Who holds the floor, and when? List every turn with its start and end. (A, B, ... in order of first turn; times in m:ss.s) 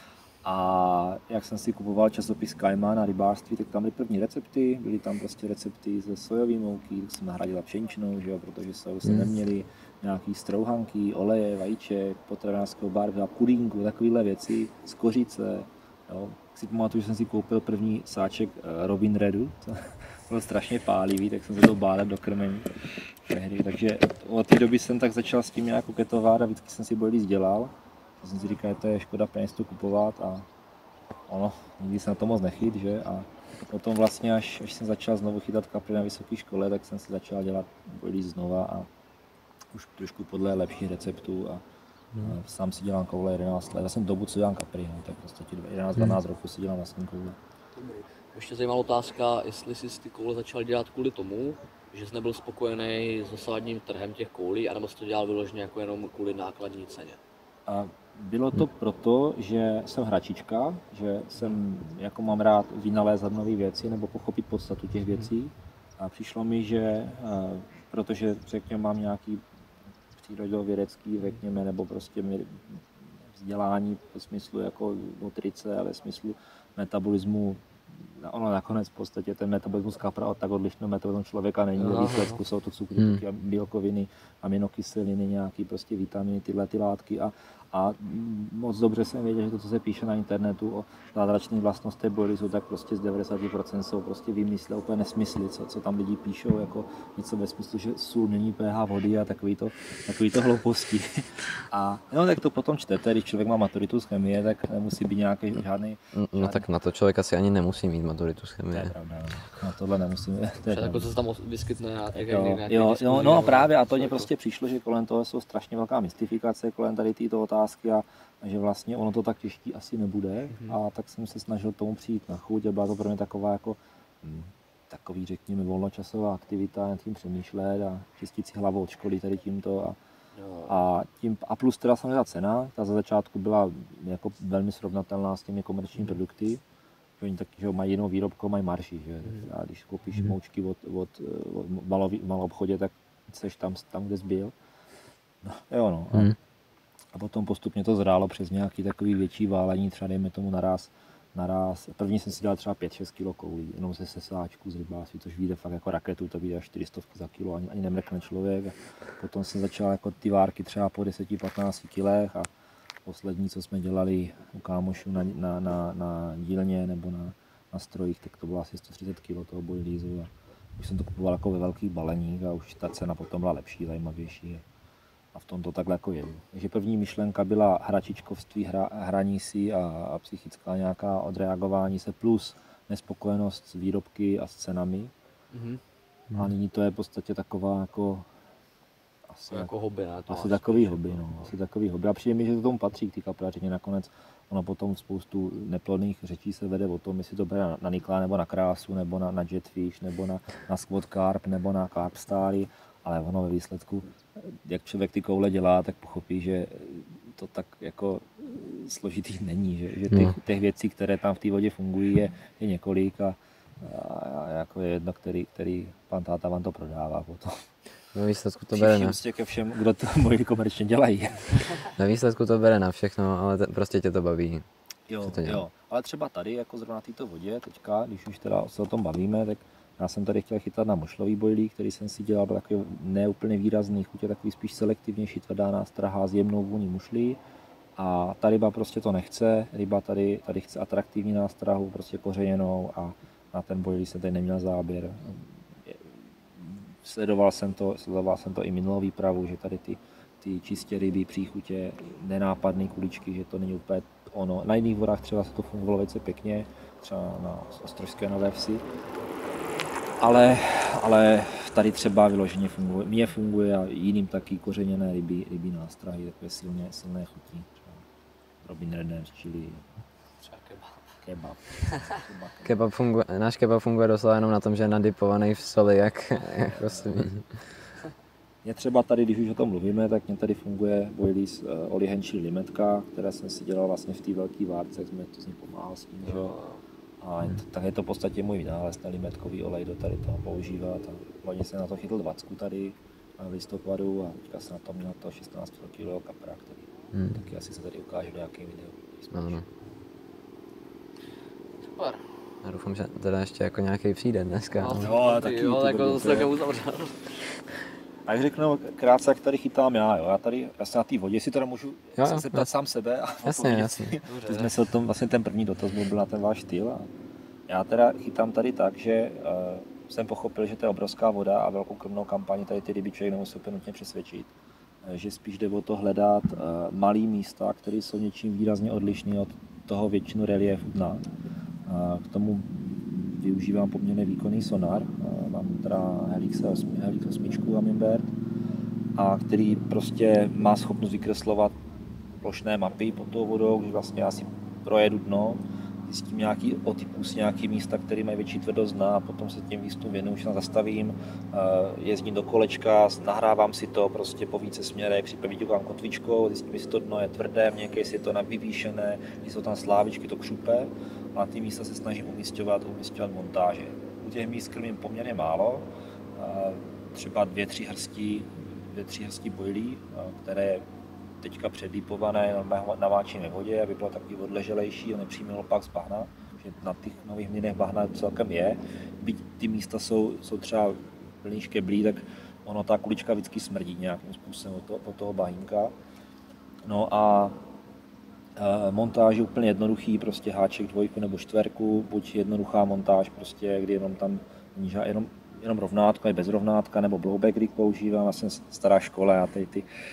0:00.4-0:22.7 A
0:23.2-0:30.5 A
0:31.3-0:38.9 A
0:39.7-0:41.6 A
0:42.2-0:47.4 A
0:47.8-0:57.2 B
0:57.7-1:09.4 A
1:10.1-1:46.7 A
1:21.8-1:22.4 B
1:23.0-1:23.2 C
1:46.2-1:48.9 C
1:48.7-1:51.1 A
1:50.7-1:54.3 B
1:52.1-2:10.0 A
2:10.4-2:10.8 B
2:10.7-2:16.6 A
2:17.2-2:24.6 A
2:25.4-2:26.4 A
2:27.1-2:42.5 A
2:43.0-2:54.6 A
2:55.3-3:05.1 A
3:05.5-3:05.8 B
3:06.3-3:08.3 A
3:09.3-3:09.7 A
3:09.5-3:11.4 B
3:10.3-3:37.7 A
3:30.1-3:30.4 C
3:38.1-3:39.2 C
3:38.7-3:41.6 A
3:42.0-3:44.7 C
3:45.1-3:57.4 A
3:45.2-3:45.6 C
3:58.0-4:18.8 A
4:20.2-4:28.0 A
4:28.6-4:29.9 A
4:30.4-4:31.1 B
4:31.2-4:32.7 A
4:31.9-4:32.2 B
4:32.6-4:37.5 C
4:36.6-4:37.2 A
4:38.6-4:46.6 A
4:46.2-4:46.8 B
4:47.2-4:59.6 A
4:57.1-4:57.4 C
4:59.3-4:59.6 C
5:01.8-5:02.2 B
5:02.6-5:05.1 C
5:04.8-5:07.4 B
5:05.0-5:06.5 A
5:08.3-5:17.1 A
5:12.2-5:12.7 C
5:13.4-5:14.2 C
5:14.3-5:14.7 B
5:17.7-5:24.5 A
5:25.0-5:31.2 A
5:31.9-5:38.3 A
5:39.2-5:41.7 A
5:42.4-6:10.8 A
6:11.4-6:25.9 A
6:26.8-6:27.6 A
6:28.6-6:39.9 A